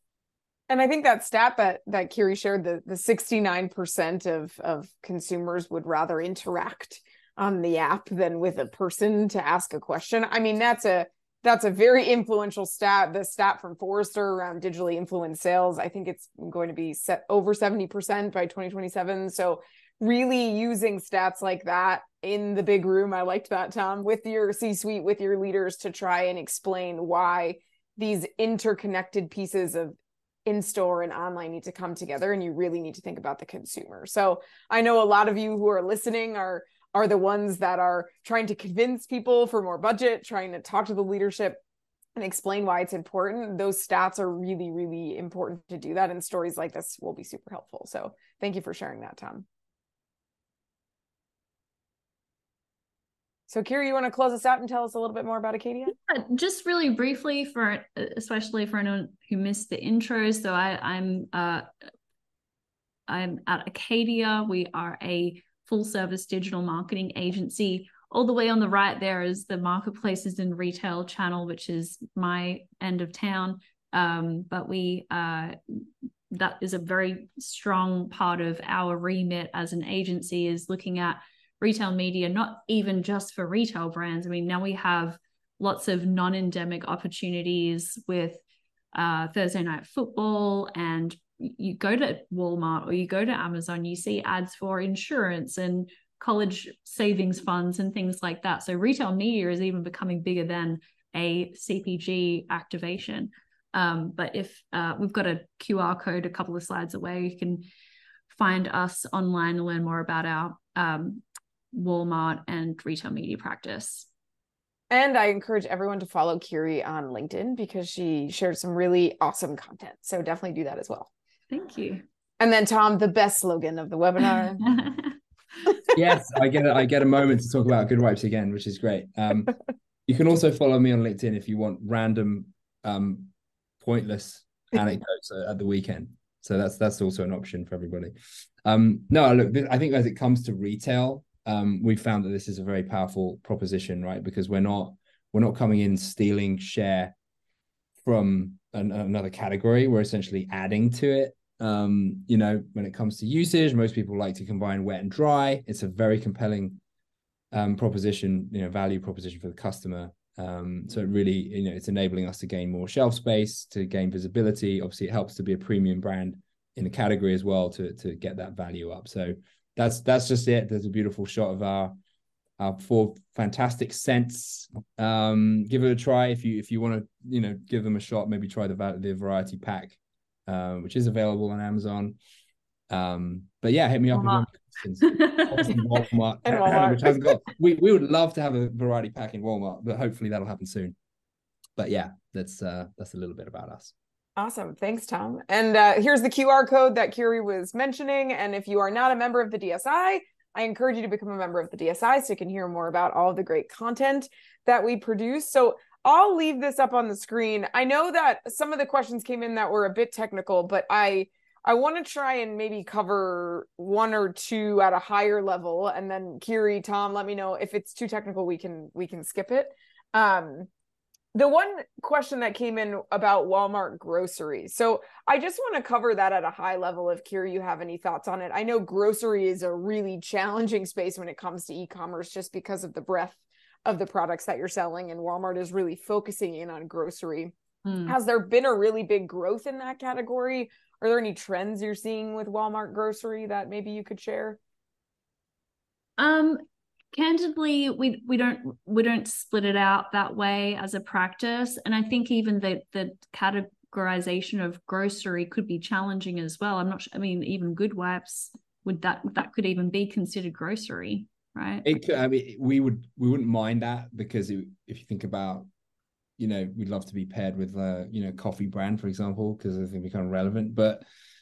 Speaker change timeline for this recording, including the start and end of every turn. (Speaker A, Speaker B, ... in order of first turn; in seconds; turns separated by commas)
Speaker A: 0.7-29.9, Speaker A: 30.4-41.6, Speaker A: 42.1-49.4, Speaker A: 53.5-55.9, Speaker B: 55.9-61.6, Speaker B: 63.1-88.4, Speaker B: 88.9-107.7, Speaker B: 108.3-114.1, Speaker A: 114.9-121.1, Speaker B: 121.5-122.0, Speaker A: 122.4-124.6, Speaker B: 124.6-125.1, Speaker C: 125.9-129.6, Speaker C: 130.1-138.1, Speaker C: 138.6-147.1, Speaker C: 148.0-156.8, Speaker C: 157.5-171.9, Speaker C: 172.6-182.2, Speaker C: 182.9-190.9, Speaker B: 184.1-184.4, Speaker B: 185.1-185.7, Speaker A: 186.4-187.2, Speaker C: 191.8-193.9, Speaker A: 194.4-220.7, Speaker A: 221.3-237.5, Speaker B: 237.8-238.2, Speaker A: 238.1-244.6, Speaker B: 246.2-246.6, Speaker B: 247.1-261.9, Speaker C: 261.8-265.7, Speaker C: 266.4-271.0